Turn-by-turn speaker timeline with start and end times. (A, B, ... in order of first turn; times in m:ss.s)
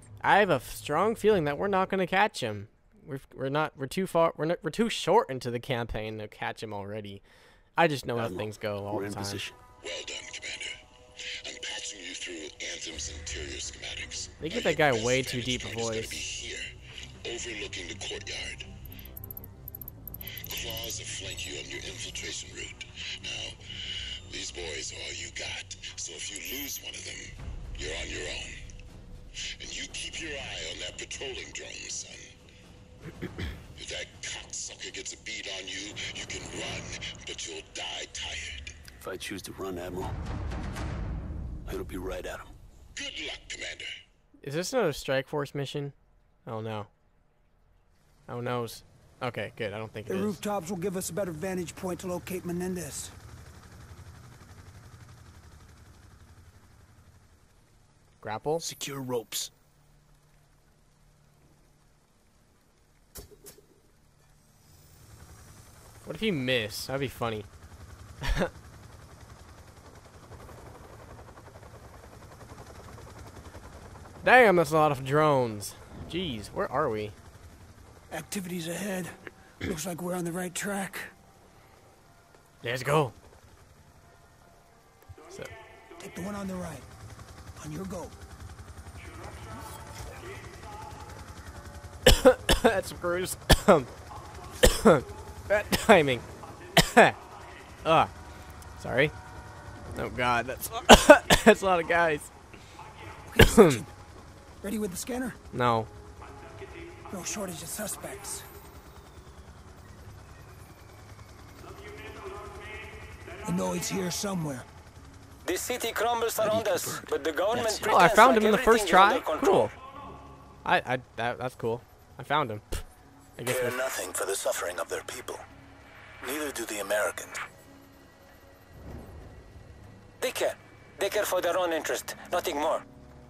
0:00.2-0:07.2 A
0:07.8-0:09.4 A
0:08.2-0:09.6 B
0:09.8-0:10.7 C
0:11.4-0:16.7 C
0:14.4-0:16.2 A
0:17.2-0:18.7 C
0:20.5-0:23.5 C
0:24.3-0:28.5 C
0:29.6-0:32.2 C
0:33.8-0:38.7 C
0:39.0-0:40.1 B
0:41.7-0:42.5 B
0:43.0-0:43.9 C
0:44.4-0:45.9 A
0:46.4-0:46.9 A
0:48.3-0:50.4 A
0:50.1-0:53.1 D
0:58.2-0:58.7 A
0:58.6-0:59.5 B
1:06.0-1:07.5 A
1:08.2-1:08.5 A
1:14.2-1:17.1 A
1:18.1-1:19.1 D
1:19.6-1:21.1 D
1:22.6-1:23.1 A
1:26.0-1:26.9 D
1:27.6-1:28.1 D
1:32.1-1:33.9 A
1:34.6-1:36.2 A
1:36.8-1:37.2 A
1:37.8-1:38.1 A
1:38.8-1:39.1 A
1:39.9-1:42.3 A
1:43.3-1:43.9 D
1:43.4-1:43.8 A
1:44.6-1:45.4 D
1:45.5-1:45.9 A
1:47.1-1:48.4 D
1:53.4-1:54.6 D
1:55.4-1:59.7 E
1:56.4-1:57.9 B
1:57.8-1:59.7 A
2:00.6-2:02.8 A
2:03.4-2:03.8 A
2:03.4-2:05.4 F
2:06.2-2:07.4 F
2:10.2-2:12.8 E